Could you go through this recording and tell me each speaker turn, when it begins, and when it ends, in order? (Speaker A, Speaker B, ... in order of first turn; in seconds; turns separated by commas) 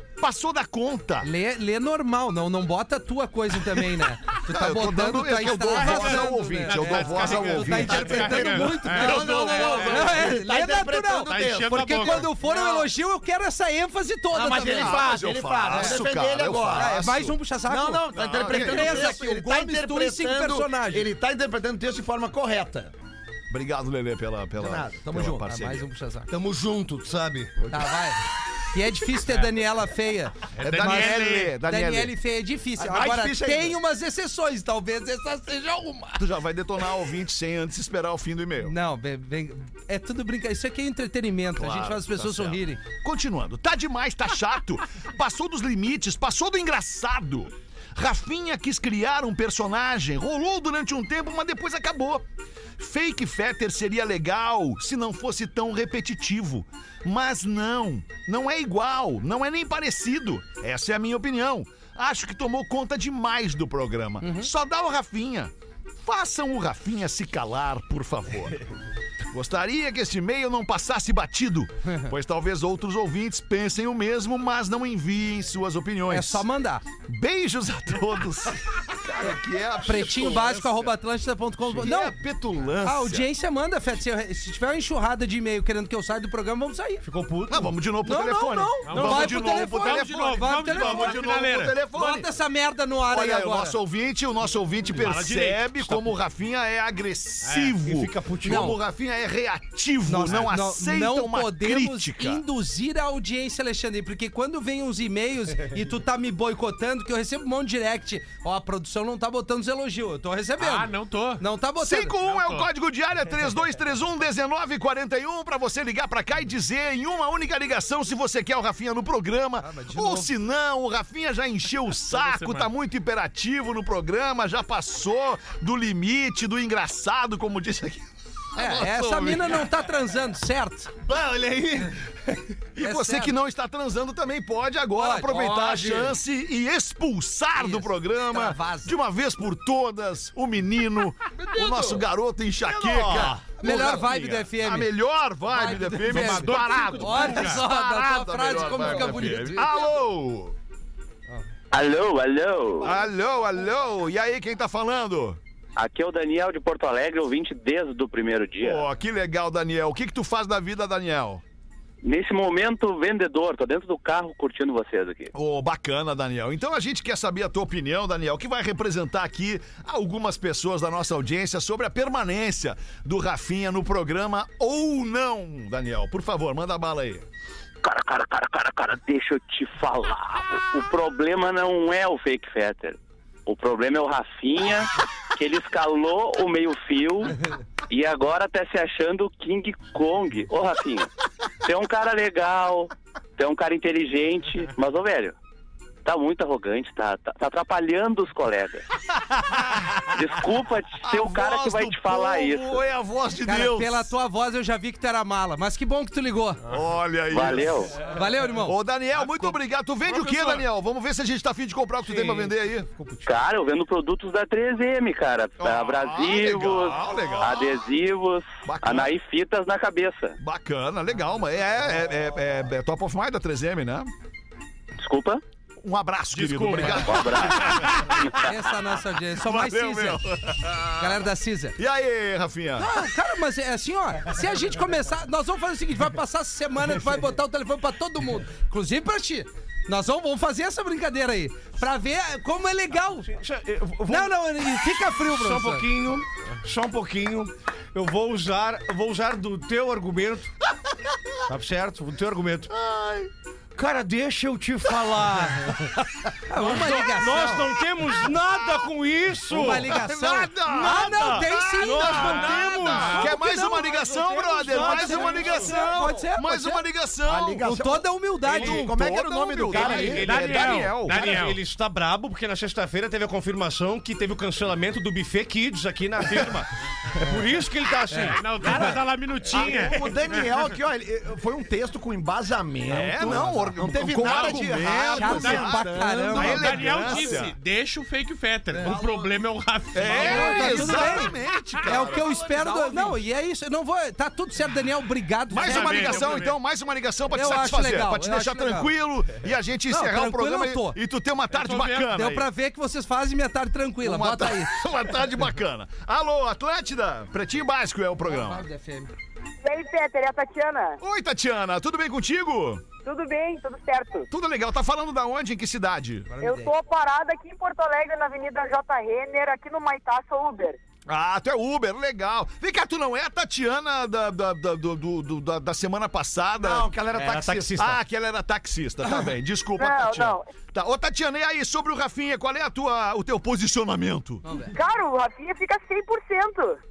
Speaker A: 0.2-1.3, Speaker B: 1.2-15.1, Speaker A: 4.4-10.3, Speaker C: 5.7-10.3, Speaker D: 7.8-12.8, Speaker C: 11.3-12.3, Speaker D: 14.3-17.0, Speaker A: 14.6-17.4, Speaker B: 15.7-16.0, Speaker B: 16.7-21.1, Speaker D: 17.6-22.9, Speaker A: 18.1-19.1, Speaker A: 23.5-25.9, Speaker D: 24.6-25.5, Speaker B: 25.4-26.3, Speaker E: 26.3-27.8, Speaker B: 27.7-28.2, Speaker B: 28.7-36.3, Speaker C: 30.5-31.6, Speaker A: 30.6-32.1, Speaker D: 32.8-33.8, Speaker A: 36.2-38.8, Speaker B: 38.6-42.8, Speaker A: 41.5-52.2, Speaker A: 52.8-65.5, Speaker B: 64.2-64.5, Speaker A: 66.0-68.6, Speaker A: 69.3-76.5, Speaker B: 76.1-76.8, Speaker A: 77.1-80.8, Speaker B: 79.8-82.2, Speaker C: 80.4-80.7, Speaker A: 81.7-83.3, Speaker B: 82.8-87.0, Speaker E: 87.0-87.7, Speaker A: 87.5-92.3, Speaker B: 88.0-91.3, Speaker C: 88.8-91.8, Speaker B: 91.9-93.8, Speaker A: 93.1-102.4, Speaker C: 94.9-96.1, Speaker C: 97.4-97.8, Speaker E: 97.8-98.7, Speaker B: 98.5-98.8, Speaker B: 100.1-112.2, Speaker C: 110.6-111.5, Speaker A: 111.8-129.7, Speaker C: 112.2-112.7, Speaker B: 119.6-120.3, Speaker C: 122.1-122.7, Speaker B: 128.6-130.9, Speaker E: 131.0-132.6, Speaker A: 132.8-150.6, Speaker B: 132.8-133.3, Speaker B: 135.0-135.6, Speaker E: 135.3-136.1, Speaker B: 137.6-138.9, Speaker D: 141.4-142.0, Speaker E: 142.7-143.4, Speaker B: 143.6-144.9, Speaker B: 145.4-149.8, Speaker C: 146.1-147.6, Speaker F: 151.7-152.9, Speaker A: 152.8-155.4, Speaker F: 155.8-158.9, Speaker A: 158.6-161.4, Speaker F: 162.0-165.3, Speaker A: 165.3-177.2, Speaker F: 177.8-191.1, Speaker F: 191.6-195.4, Speaker F: 196.1-198.9, Speaker A: 199.2-200.2, Speaker F: 200.1-202.8, Speaker A: 201.0-204.1, Speaker B: 203.4-206.6, Speaker A: 206.7-212.9, Speaker F: 207.3-207.9, Speaker B: 208.0-208.8, Speaker C: 209.2-209.5, Speaker C: 210.1-210.7, Speaker E: 212.1-213.3, Speaker F: 213.2-220.4, Speaker A: 215.6-217.7, Speaker A: 218.7-219.2, Speaker A: 220.4-224.1, Speaker F: 225.0-225.4, Speaker A: 225.8-228.6, Speaker C: 226.3-228.1, Speaker F: 226.8-228.3, Speaker B: 228.3-230.2, Speaker A: 229.3-231.2, Speaker B: 231.0-231.8, Speaker A: 231.8-232.9, Speaker B: 232.8-243.3, Speaker E: 243.2-250.5, Speaker B: 244.1-245.9, Speaker E: 251.5-252.7, Speaker A: 252.7-253.3, Speaker E: 253.8-260.1, Speaker B: 256.5-257.6, Speaker A: 258.4-258.9, Speaker A: 259.5-267.7, Speaker B: 259.5-266.9, Speaker E: 260.6-263.3, Speaker C: 262.1-263.3, Speaker E: 264.6-265.8, Speaker D: 267.3-270.4, Speaker B: 267.6-268.9, Speaker A: 268.4-271.4, Speaker E: 269.7-278.9, Speaker C: 270.2-271.6, Speaker C: 278.2-280.5, Speaker D: 278.7-278.9, Speaker D: 279.5-287.2, Speaker A: 282.9-287.6, Speaker B: 283.2-283.7, Speaker C: 284.2-284.6, Speaker B: 285.1-287.1, Speaker C: 286.3-291.2, Speaker D: 288.9-289.2, Speaker A: 289.9-292.3, Speaker B: 290.1-296.4, Speaker D: 290.2-291.1, Speaker D: 291.9-293.2, Speaker A: 295.5-302.5, Speaker C: 295.6-296.6, Speaker B: 297.3-298.9, Speaker B: 299.9-301.0, Speaker C: 301.5-302.1, Speaker B: 302.1-304.7, Speaker A: 304.0-308.7, Speaker B: 308.3-309.1, Speaker G: 309.6-311.0, Speaker A: 311.0-312.8, Speaker G: 313.1-314.3, Speaker A: 314.3-316.3, Speaker B: 316.3-316.7, Speaker G: 316.4-320.8, Speaker A: 321.1-326.9, Speaker D: 326.6-327.8, Speaker E: 327.1-328.0, Speaker A: 327.8-334.4, Speaker G: 329.8-330.5, Speaker B: 334.4-334.8, Speaker G: 334.7-336.8